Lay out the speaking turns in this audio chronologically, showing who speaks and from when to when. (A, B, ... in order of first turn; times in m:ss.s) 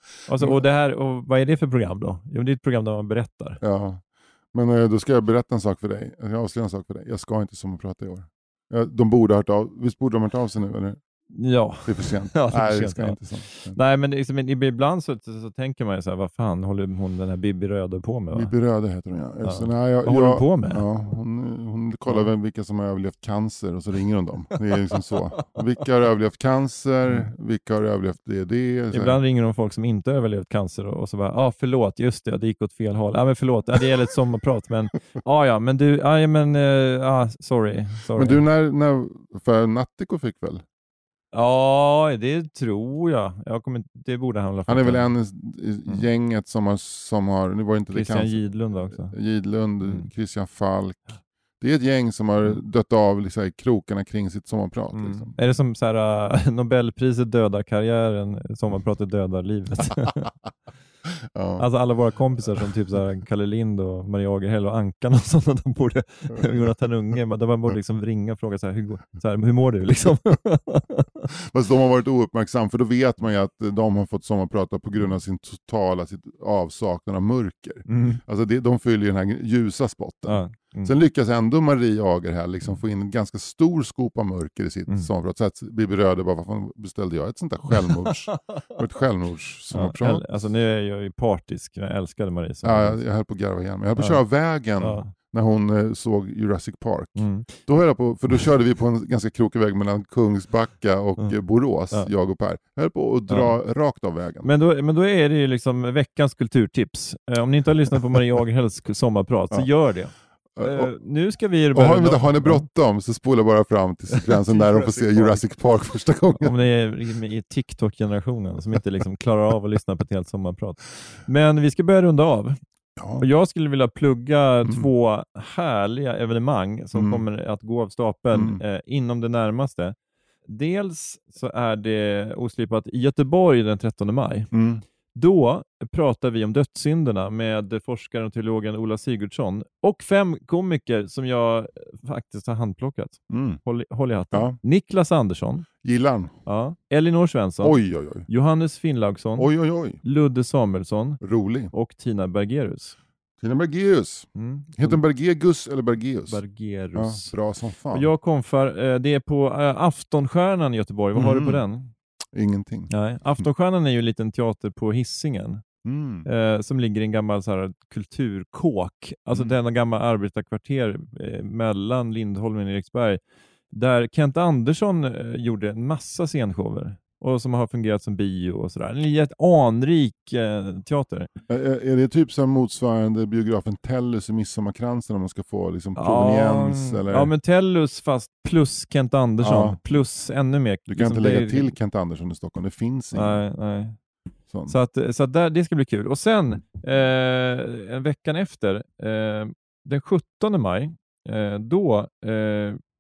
0:00.3-0:03.6 A
0:03.6-0:11.0 B
0:11.3-0:18.5 A
0:11.8-0:13.8 B
0:18.3-0:29.2 B
0:19.4-0:20.8 A
0:24.8-0:25.6 A
0:28.9-0:38.4 A
0:38.1-0:40.6 B
0:41.3-0:45.1 A
0:44.7-0:55.3 B
0:47.9-0:49.2 A
0:54.9-1:00.3 A
1:01.3-1:01.7 B
1:01.6-1:11.3 A
1:11.3-1:30.2 B
1:17.9-1:18.2 A
1:20.3-1:20.9 A
1:29.7-1:33.0 A
1:32.6-1:44.5 B
1:34.0-1:34.2 A
1:34.8-1:35.1 A
1:37.2-1:37.6 A
1:43.3-1:43.5 A
1:44.4-1:52.7 A
1:50.6-1:50.9 B
1:51.7-1:56.6 B
1:54.1-1:55.5 A
1:56.4-2:02.6 A
2:03.0-2:03.2 B
2:03.2-2:10.0 A
2:06.9-2:07.2 B
2:08.3-2:08.6 B
2:10.5-2:14.5 A
2:14.5-2:14.8 B
2:15.1-2:25.7 A
2:23.3-2:23.6 B
2:24.3-2:24.6 B
2:25.8-2:26.3 B
2:26.5-2:33.0 A
2:27.6-2:28.3 B
2:29.4-2:30.0 B
2:31.2-2:31.7 B
2:33.4-2:36.4 B
2:34.4-2:35.0 A
2:36.3-2:37.3 A
2:37.0-2:38.1 B
2:37.9-2:41.9 A
2:41.2-2:41.6 B
2:42.3-2:42.9 B
2:42.9-2:45.6 A
2:45.8-2:46.3 B
2:46.2-2:53.2 A
2:53.7-3:01.3 A
3:01.5-3:07.3 B
3:06.0-3:11.7 A
3:09.4-3:09.8 B
3:10.9-3:13.4 B
3:13.1-3:14.0 A
3:14.5-3:14.8 B
3:14.7-3:22.8 A